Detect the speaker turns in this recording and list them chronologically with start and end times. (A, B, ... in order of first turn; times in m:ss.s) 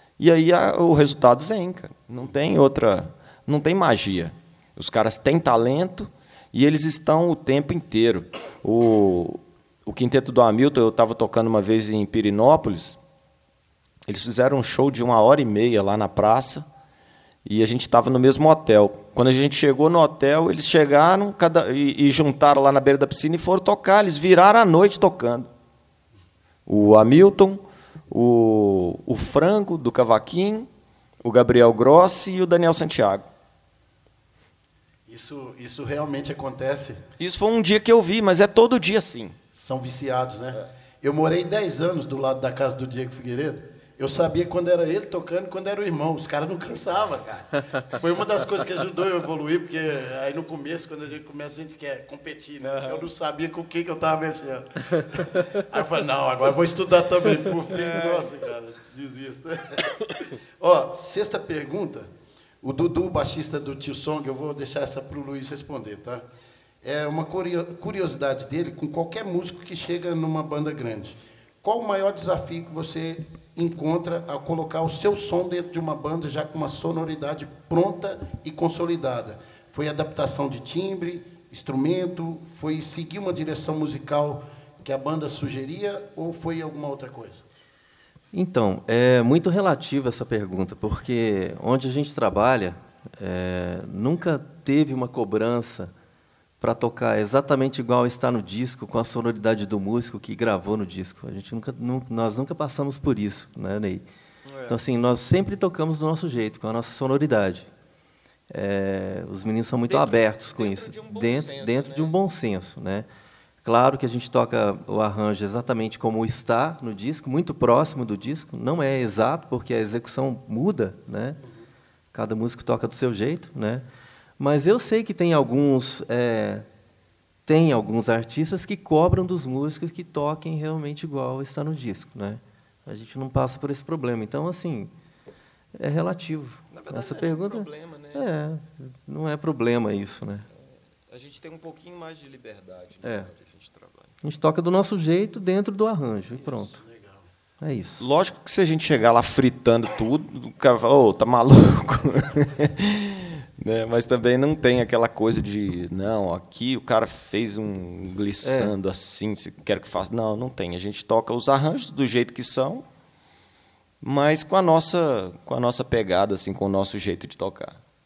0:00.2-0:13.0 A
0:14.1-0:16.7 A
0:17.4-0:25.5 A
0:26.7-0:30.7 A
0:31.2-0:33.3 A
0:35.1-0:37.1 B
0:37.2-0:39.4 A
0:39.5-1:02.1 B
1:02.6-1:06.2 B
1:06.8-1:27.4 B
1:28.3-1:35.9 C
1:36.6-1:44.0 C
1:44.5-1:44.8 A
1:44.7-1:47.7 C
1:48.5-1:53.1 C
1:49.9-1:52.1 A
1:53.6-2:01.4 C
2:02.1-2:03.8 C
2:04.4-2:06.6 C
2:07.4-2:14.9 C
2:15.8-2:20.5 C
2:16.7-2:18.2 A
2:20.6-2:24.1 A
2:23.0-2:23.3 C
2:24.2-2:26.8 C
2:26.4-2:27.2 B
2:27.6-2:28.0 C
2:28.0-2:42.8 A
2:38.4-2:38.7 C
2:44.0-2:47.8 A